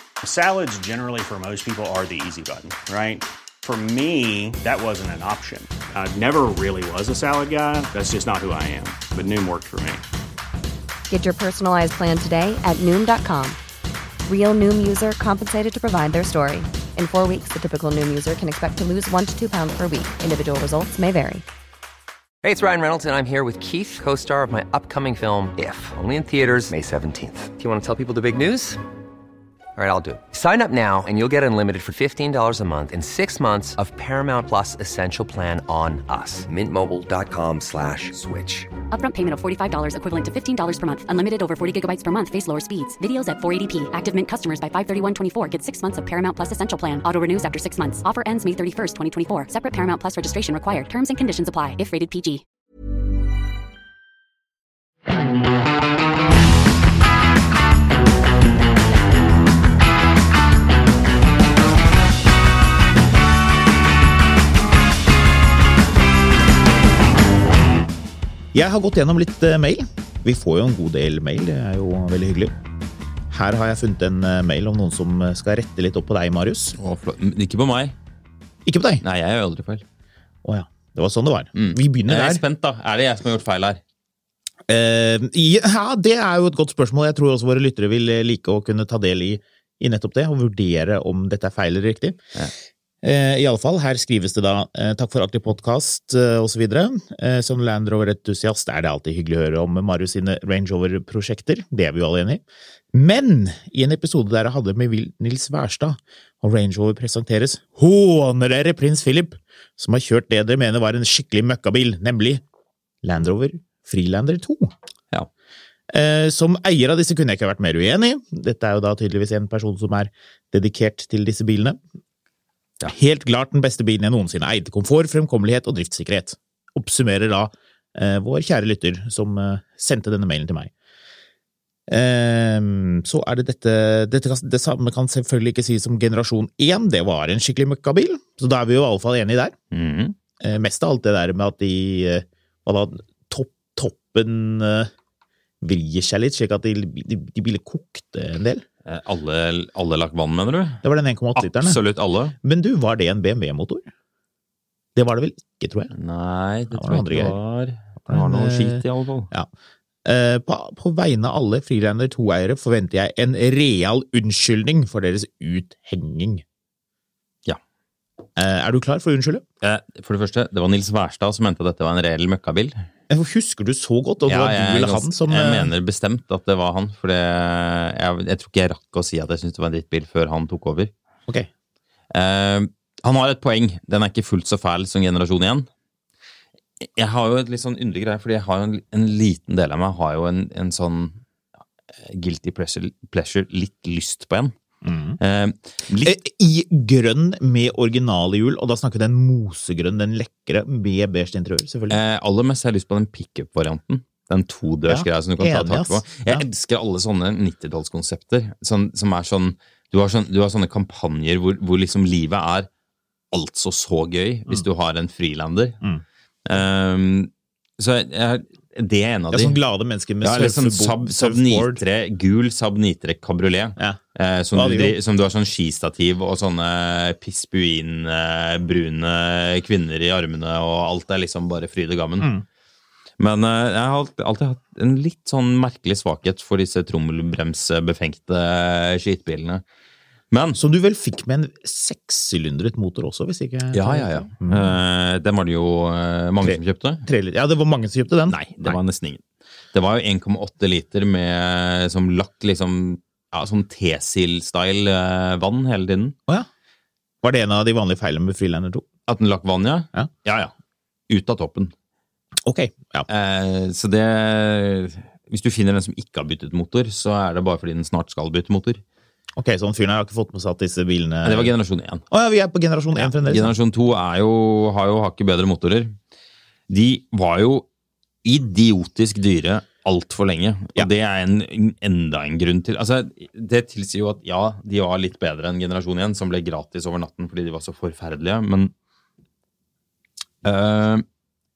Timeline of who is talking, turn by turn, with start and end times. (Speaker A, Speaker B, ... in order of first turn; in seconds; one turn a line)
Speaker A: 0.2-10.0
Speaker B: 11.1-13.6
Speaker B: 14.2-21.4
Speaker C: 22.4-28.8
Speaker C: 29.8-38.7
Speaker D: 38.9-52.4
Speaker E: 68.5-72.5
Speaker E: 73.3-76.8
Speaker F: 76.8-77.9
Speaker E: 78.6-79.0
Speaker F: 79.0-79.8
Speaker E: 80.4-82.4
Speaker F: 81.5-83.8
Speaker E: 84.7-92.2
Speaker E: 93.0-102.4
Speaker E: 102.9-112.4
Speaker E: 113.0-114.7
Speaker E: 115.9-121.8
Speaker E: 122.8-130.7
Speaker E: 131.9-139.5
Speaker F: 139.7-140.1
Speaker E: 140.4-144.9
Speaker E: 145.6-148.6
Speaker F: 148.8-150.8
Speaker E: 150.8-151.8
Speaker F: 151.4-152.3
Speaker E: 152.4-153.8
Speaker E: 154.9-155.9
Speaker F: 155.9-159.3
Speaker E: 156.7-157.3
Speaker E: 158.1-159.5
Speaker E: 160.0-166.4
Speaker E: 168.3-169.4
Speaker F: 169.6-172.8
Speaker E: 173.1-175.7
Speaker F: 174.2-180.9
Speaker F: 182.1-185.7
Speaker F: 186.8-191.2
Speaker F: 192.1-194.5
Speaker E: 194.8-195.2
Speaker F: 195.2-196.2
Speaker E: 196.0-202.0
Speaker F: 201.9-212.7
Speaker E: 204.9-206.4
Speaker F: 213.3-215.8
Speaker F: 216.4-219.6
Speaker E: 219.3-221.8
Speaker F: 220.2-232.3
Speaker E: 224.5-224.9
Speaker E: 232.2-232.4
Speaker F: 233.2-239.6
Speaker F: 240.3-240.6
Speaker E: 240.6-244.7
Speaker F: 243.7-247.0
Speaker E: 246.4-248.8
Speaker F: 248.3-249.2
Speaker F: 249.7-256.1
Speaker E: 257.2-258.9
Speaker F: 259.1-260.5
Speaker F: 261.1-261.7
Speaker E: 262.4-263.1
Speaker F: 263.1-268.8
Speaker E: 269.4-271.5
Speaker F: 271.2-272.0
Speaker E: 272.1-273.5
Speaker F: 273.0-275.9
Speaker F: 276.7-277.6
Speaker F: 278.2-288.7
Speaker F: 290.4-291.0